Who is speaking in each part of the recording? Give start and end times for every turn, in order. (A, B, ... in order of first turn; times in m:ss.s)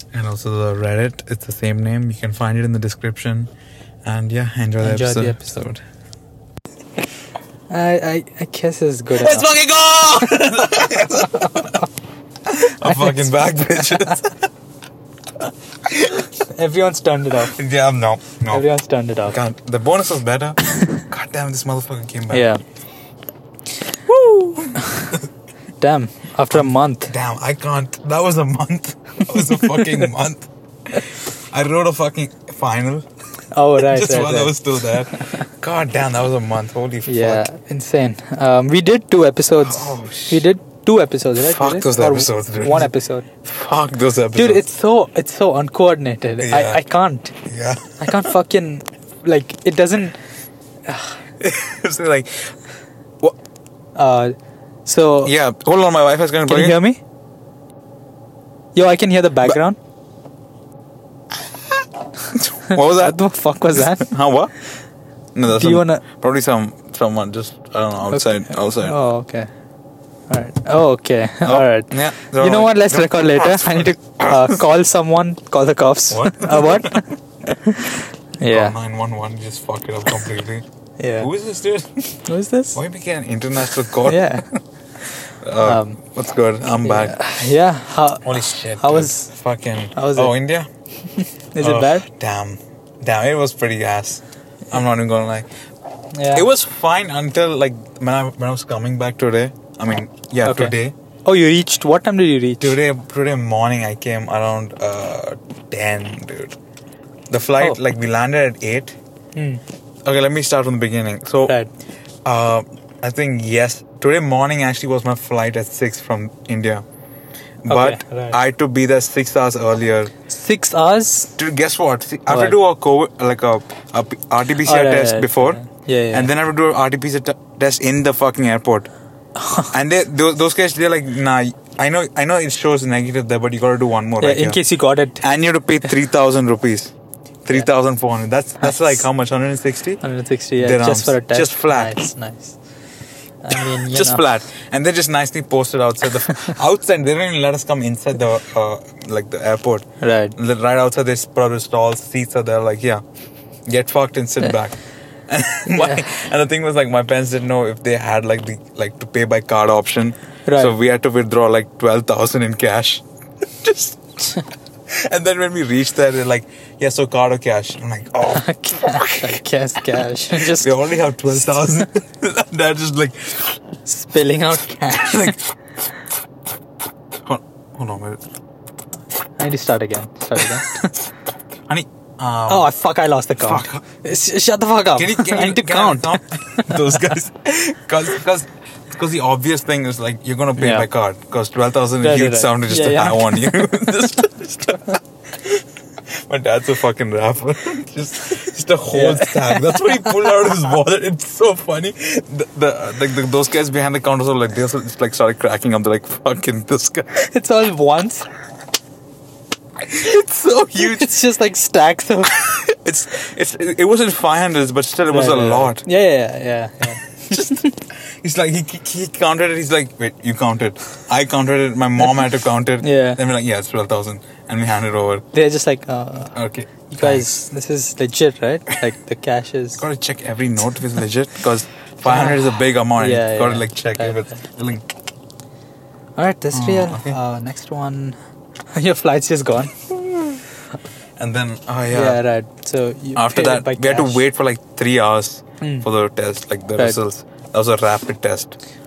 0:00.1-0:03.5 A
0:04.0-0:05.8 A
0:04.8-0:05.6 B
0:07.7-0:09.5 B
0:09.1-0:11.8 A
0:10.3-0:11.8 B
0:12.4-0:14.4 A
0:12.8-0:14.2 B
0:15.9-0:16.2 A
0:16.2-0:17.6 B
0:17.4-0:18.6 A
0:18.5-0:19.4 B
0:19.2-0:22.5 A
0:22.3-0:22.6 B
0:24.1-0:25.3 A
0:24.7-0:25.2 B
0:25.8-0:27.1 B
0:26.5-0:33.1 A
0:29.2-0:30.0 B
0:33.5-0:35.5 B
0:33.8-0:37.4 A
0:37.0-0:43.2 B
0:39.6-0:40.4 A
0:41.4-0:42.9 A
0:43.4-0:44.6 A
0:44.3-0:47.3 B
0:46.4-0:46.8 A
0:47.4-0:48.3 A
0:48.0-0:50.2 B
0:50.8-0:51.2 B
0:51.4-0:52.5 A
0:53.9-0:55.3 B
0:55.2-0:56.8 A
0:56.4-0:57.0 B
0:58.7-0:59.8 B
1:02.3-1:03.2 A
1:02.6-1:04.1 B
1:03.8-1:04.5 A
1:05.3-1:09.0 A
1:05.4-1:06.0 B
1:08.1-1:09.5 B
1:10.3-1:18.7 B
1:11.4-1:14.6 A
1:16.1-1:17.1 A
1:18.5-1:20.6 A
1:21.0-1:21.3 B
1:21.2-1:22.1 A
1:22.2-1:22.8 B
1:22.7-1:24.6 A
1:24.0-1:24.4 B
1:25.3-1:27.6 A
1:25.6-1:26.0 B
1:26.8-1:29.3 B
1:28.2-1:30.7 A
1:29.9-1:30.3 B
1:31.1-1:32.0 B
1:31.6-1:35.5 A
1:36.1-1:36.5 B
1:36.3-1:40.9 A
1:40.4-1:42.8 B
1:42.6-1:46.6 A
1:47.3-1:49.0 A
1:49.3-1:49.6 B
1:50.0-1:51.5 A
1:52.2-1:56.8 A
1:57.6-2:00.1 A
1:57.7-1:58.4 B
2:00.3-2:01.3 B
2:01.4-2:08.9 A
2:02.3-2:02.6 B
2:04.6-2:06.3 B
2:09.4-2:09.7 B
2:09.7-2:14.6 A
2:14.2-2:15.2 B
2:15.2-2:16.9 A
2:17.4-2:20.0 A
2:18.6-2:19.0 B
2:20.0-2:22.6 B
2:20.6-2:22.0 A
2:23.4-2:24.2 B
2:23.5-2:29.8 A
2:26.2-2:26.6 B
2:30.0-2:30.4 B
2:30.4-2:33.0 A
2:33.7-2:34.8 A
2:35.3-2:43.0 A
2:35.7-2:36.0 B
2:40.5-2:40.7 B
2:43.6-2:49.4 A
2:48.3-2:51.9 B
2:50.3-2:53.6 A
2:53.9-2:55.4 B
2:54.9-2:55.7 A
2:57.1-2:58.2 A
2:59.4-3:01.0 B
3:00.4-3:00.9 A
3:01.6-3:02.7 A
3:02.5-3:07.1 B
3:03.4-3:03.8 A
3:05.0-3:27.1 A
3:10.6-3:10.9 B
3:12.0-3:14.2 B
3:18.9-3:20.5 B
3:27.1-3:28.2 B
3:29.8-3:31.2 A
3:30.8-3:32.4 B
3:32.3-3:35.8 A
3:35.1-3:37.8 B
3:37.2-3:45.2 A
3:42.8-3:43.2 B
3:45.3-3:46.4 B
3:46.3-3:47.3 A
3:46.9-3:49.8 B
3:49.8-3:54.9 A
3:52.0-3:54.2 B
3:56.2-3:58.2 B
3:56.5-3:57.2 A
3:58.7-3:59.7 B
4:01.2-4:02.2 A
4:01.9-4:04.2 B
4:03.1-4:08.6 A
4:05.6-4:05.9 B